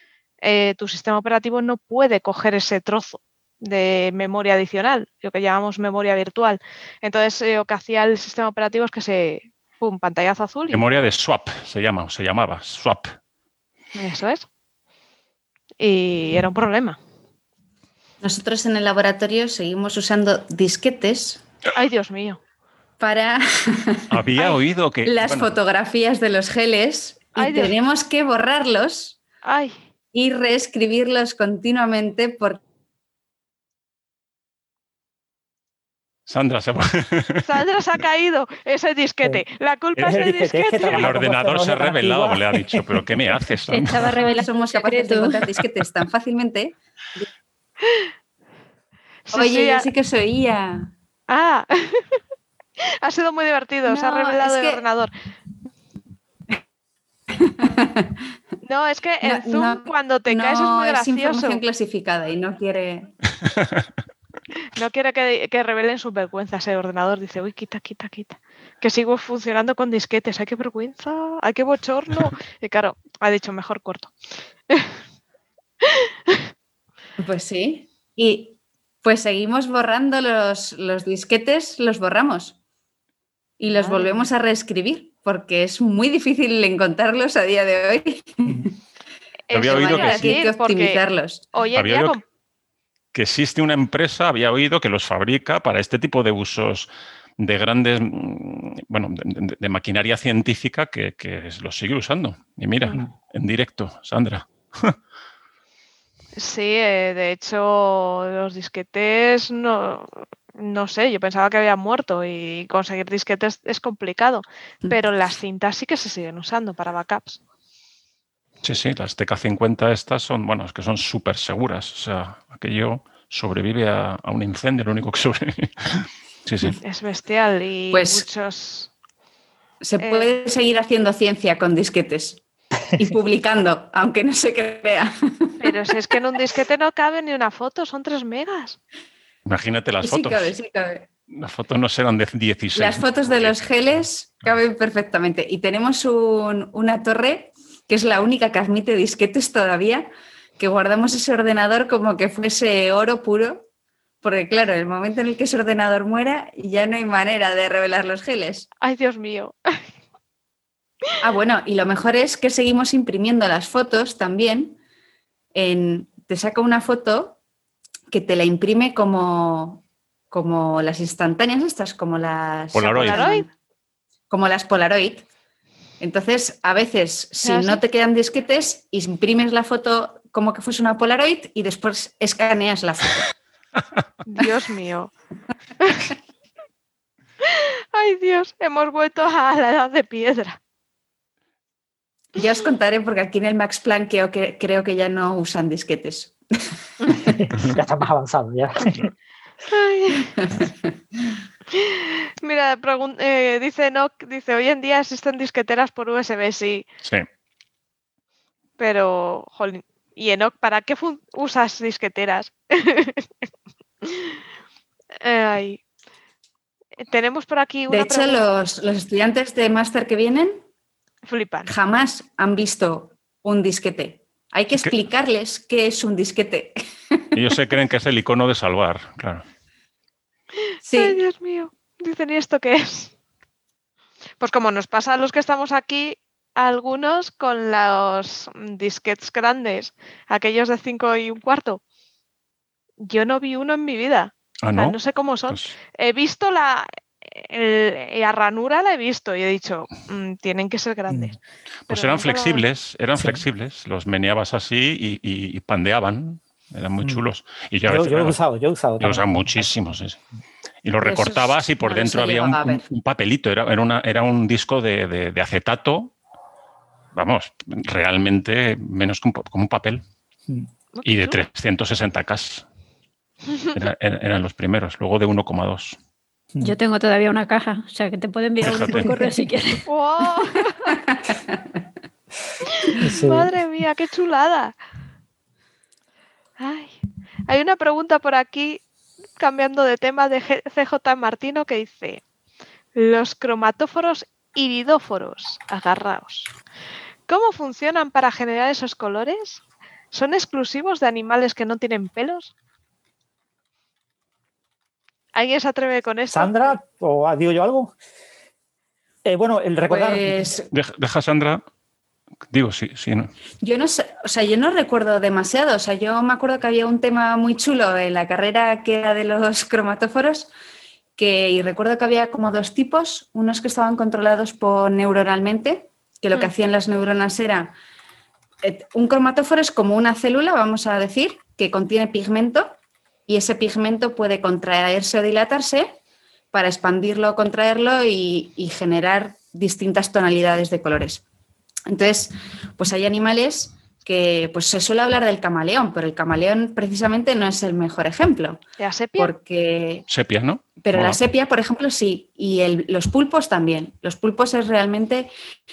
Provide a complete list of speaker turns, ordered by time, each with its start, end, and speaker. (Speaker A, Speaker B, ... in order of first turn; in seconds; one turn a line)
Speaker A: 0.4-11.0
Speaker B: 10.7-13.2
Speaker A: 13.9-14.5
Speaker A: 15.8-17.0
Speaker C: 18.2-21.4
Speaker A: 21.7-22.4
Speaker C: 23.0-29.2
Speaker B: 24.1-25.5
Speaker A: 27.4-27.8
Speaker A: 29.4-29.8
Speaker C: 30.1-32.6
Speaker B: 36.3-37.5
Speaker A: 37.4-41.1
Speaker D: 40.0-43.1
Speaker B: 40.9-44.1
Speaker E: 43.7-45.5
Speaker C: 44.3-46.8
Speaker A: 47.8-48.1
Speaker A: 49.3-49.9
Speaker C: 49.3-50.9
Speaker A: 51.3-52.2
Speaker A: 52.8-55.1
Speaker C: 53.9-54.8
Speaker C: 57.3-58.1
Speaker A: 58.6-61.6
Speaker C: 59.2-63.1
Speaker B: 63.4-63.8
Speaker A: 64.7-74.1
Speaker A: 74.7-75.0
Speaker A: 75.8-76.5
Speaker C: 77.2-82.6
Speaker C: 83.6-88.8
Speaker A: 83.7-84.3
Speaker A: 89.5-91.0
Speaker B: 89.5-90.4
Speaker C: 89.5-91.5
Speaker A: 91.5-92.2
Speaker B: 91.7-92.2
Speaker B: 93.1-105.0
Speaker A: 106.4-117.4
Speaker B: 118.6-126.8
Speaker A: 126.8-128.9
Speaker C: 127.9-128.3
Speaker C: 129.8-132.4
Speaker A: 130.0-130.3
Speaker C: 133.0-136.2
Speaker A: 135.6-138.8
Speaker B: 139.5-140.6
Speaker C: 140.0-141.1
Speaker B: 141.3-143.6
Speaker C: 142.8-153.7
Speaker C: 154.2-158.7
Speaker A: 158.8-159.8
Speaker C: 161.2-164.8
Speaker C: 165.6-167.4
Speaker C: 168.1-173.5
Speaker B: 172.7-173.3
Speaker A: 173.0-173.4
Speaker C: 174.3-175.3
Speaker C: 176.0-183.3
Speaker A: 177.4-177.8
Speaker A: 184.3-185.1
Speaker A: 185.8-186.1
Speaker A: 187.4-190.6
Speaker C: 192.4-196.4
Speaker C: 197.1-197.4
Speaker D: 197.3-199.1
Speaker A: 199.7-200.3
Speaker C: 200.3-200.7
Speaker A: 201.7-206.9
Speaker A: 208.8-213.3
Speaker A: 214.0-214.4
Speaker A: 215.2-215.8
Speaker A: 217.0-218.5
Speaker C: 217.9-220.6
Speaker A: 221.3-221.7
Speaker C: 221.7-227.3
Speaker B: 227.3-229.4
Speaker C: 230.9-231.2
Speaker A: 230.9-233.1
Speaker A: 234.4-241.8
Speaker A: 243.0-251.4
Speaker B: 244.6-245.7
Speaker D: 251.1-251.3
Speaker B: 251.9-258.4
Speaker A: 251.9-252.6
Speaker D: 257.9-259.7
Speaker B: 259.0-260.2
Speaker B: 260.8-266.1
Speaker C: 261.0-262.9
Speaker B: 267.1-270.0
Speaker A: 270.9-271.4
Speaker B: 271.0-272.7
Speaker A: 273.5-273.8
Speaker B: 273.7-276.0
Speaker E: 276.6-279.9
Speaker B: 278.6-279.1
Speaker D: 278.8-279.5
Speaker A: 279.9-280.9
Speaker C: 281.1-281.4
Speaker A: 282.7-284.7
Speaker D: 283.0-283.5
Speaker A: 286.6-287.0
Speaker A: 287.5-288.8
Speaker A: 289.4-292.2
Speaker A: 292.9-296.5
Speaker A: 297.3-302.5
Speaker A: 305.3-306.8
Speaker D: 306.3-307.9
Speaker D: 309.2-310.6
Speaker C: 309.9-310.7
Speaker B: 310.7-311.6
Speaker B: 312.5-313.3
Speaker C: 313.6-320.5
Speaker C: 321.2-327.8
Speaker C: 328.6-332.8
Speaker C: 333.3-336.0
Speaker C: 336.5-341.2
Speaker C: 341.9-348.6
Speaker A: 348.8-349.3
Speaker C: 349.2-350.1
Speaker B: 350.1-351.2
Speaker C: 350.8-355.3